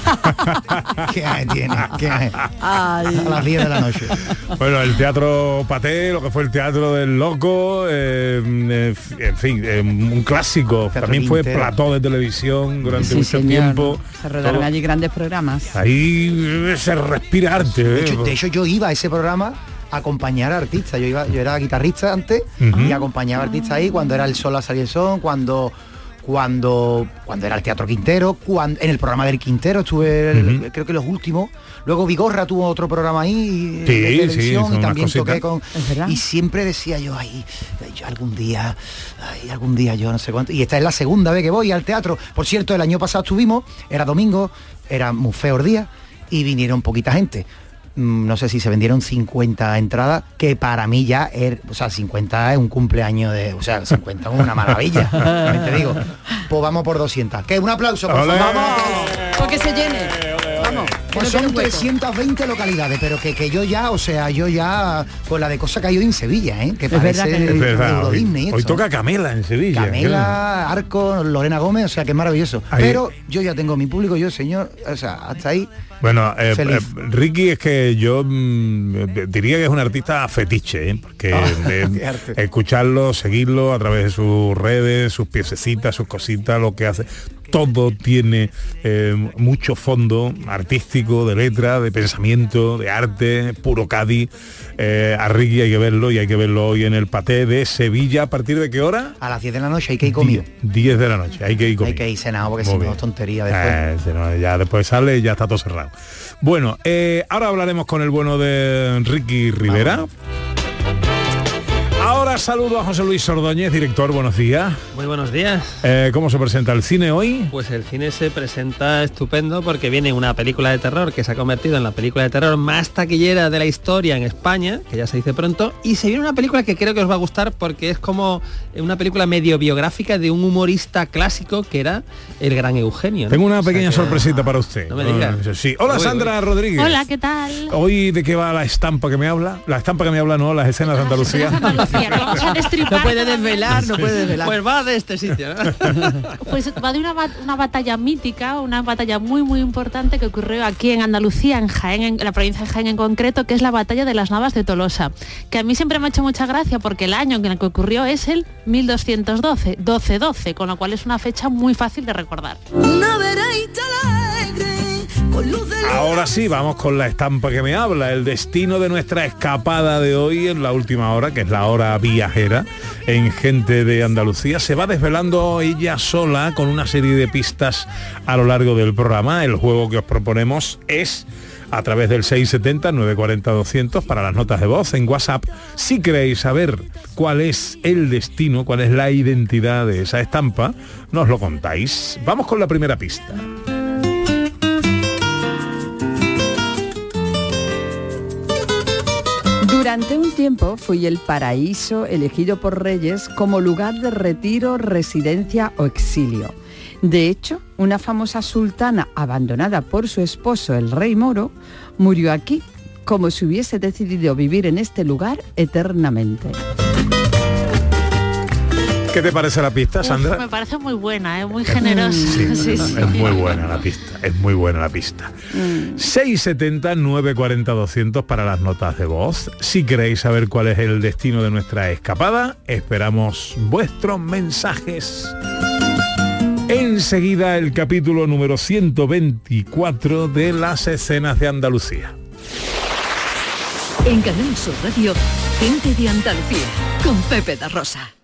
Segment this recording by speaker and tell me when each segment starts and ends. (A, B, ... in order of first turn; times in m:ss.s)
0:00.5-0:01.0 A
0:01.0-0:02.4 B
0:02.6-0:03.5 C
0:03.1-0:04.2 B
0:04.2-0:14.7 A
0:10.9-0:11.7 B
0:12.9-0:15.8 C
0:15.7-0:18.4 A
0:17.7-0:59.2 B
0:22.6-0:23.0 A
0:30.3-0:30.6 A
0:33.8-0:35.4 A
0:35.7-0:36.2 C
0:58.1-0:59.4 A
0:58.3-1:01.9 C
1:01.1-1:08.8 B
1:06.9-1:07.7 C
1:07.4-1:10.4 A
1:09.7-1:15.7 B
1:12.7-1:13.0 A
1:16.0-1:39.2 A
1:16.5-1:16.9 B
1:21.3-1:22.4 B
1:39.2-1:40.4 B
1:40.1-1:42.0 A
1:41.8-1:43.8 B
1:42.6-1:43.0 A
1:43.5-1:50.1 A
1:49.6-1:50.1 B
1:52.0-1:54.8 A
1:54.9-1:55.8 D
1:55.8-1:57.5 A
1:57.5-2:16.3 D
2:13.3-2:17.0 A
2:16.8-2:17.7 E
2:17.7-2:22.4 A
2:21.0-2:23.6 E
2:22.4-2:24.6 C
2:23.7-2:24.1 A
2:24.4-2:26.2 D
2:26.4-2:42.6 E
2:42.8-2:46.4 F
2:45.8-3:13.4 A
3:19.6-3:36.6 C
3:39.1-3:40.4 A
3:40.0-3:43.5 E
3:41.7-3:45.4 A
3:41.8-3:42.9 C
3:45.5-3:46.0 C
3:45.9-3:55.4 A
3:56.7-4:02.1 A
4:04.0-4:08.1 G